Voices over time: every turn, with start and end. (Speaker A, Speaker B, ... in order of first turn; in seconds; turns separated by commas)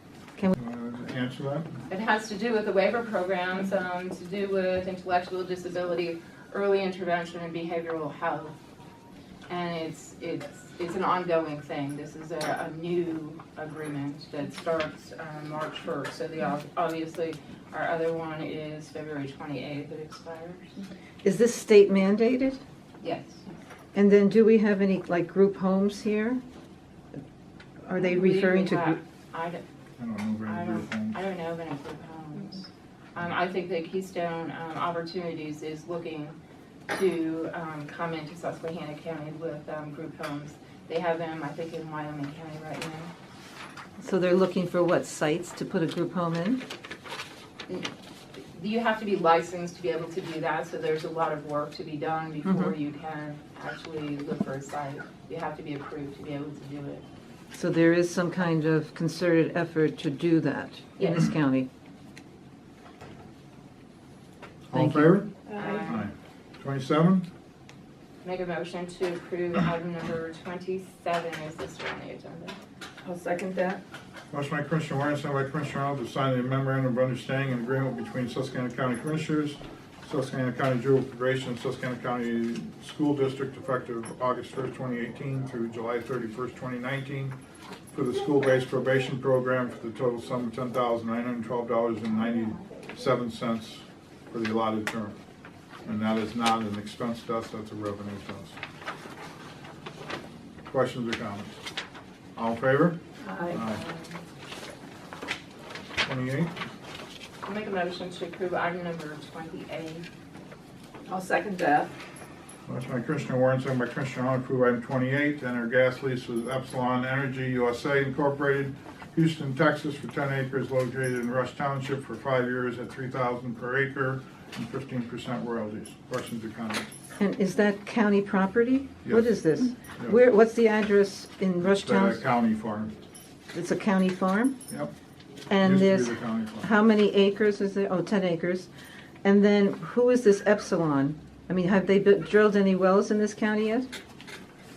Speaker A: 0.5-1.7, Speaker B: 1.9-8.5, Speaker B: 9.5-20.8, Speaker C: 21.2-22.6, Speaker B: 23.0-23.5, Speaker C: 23.9-26.4, Speaker C: 27.9-29.0, Speaker B: 27.9-29.6, Speaker A: 30.0-31.2, Speaker B: 30.4-36.4, Speaker B: 36.9-43.1, Speaker C: 44.0-46.6, Speaker B: 48.5-57.0, Speaker C: 52.5-52.7, Speaker C: 57.5-61.7, Speaker B: 61.0-61.3, Speaker A: 64.7-65.3, Speaker C: 64.7-65.2, Speaker D: 65.5-66.0, Speaker B: 65.5-66.1, Speaker A: 65.8-67.3, Speaker B: 68.2-72.6, Speaker D: 73.0-73.8, Speaker A: 74.3-87.4, Speaker A: 87.9-95.2, Speaker A: 95.8-98.6, Speaker A: 100.7-101.6, Speaker A: 102.3-103.0, Speaker D: 103.2-103.6, Speaker A: 103.5-103.8, Speaker B: 103.5-104.2, Speaker A: 106.0-106.5, Speaker B: 107.5-110.0, Speaker D: 111.1-111.9, Speaker A: 112.7-126.9, Speaker C: 127.2-132.2, Speaker A: 129.0-129.4, Speaker A: 131.6-132.9, Speaker C: 133.5-134.6, Speaker C: 135.5-138.7, Speaker A: 135.6-136.7, Speaker C: 139.2-143.9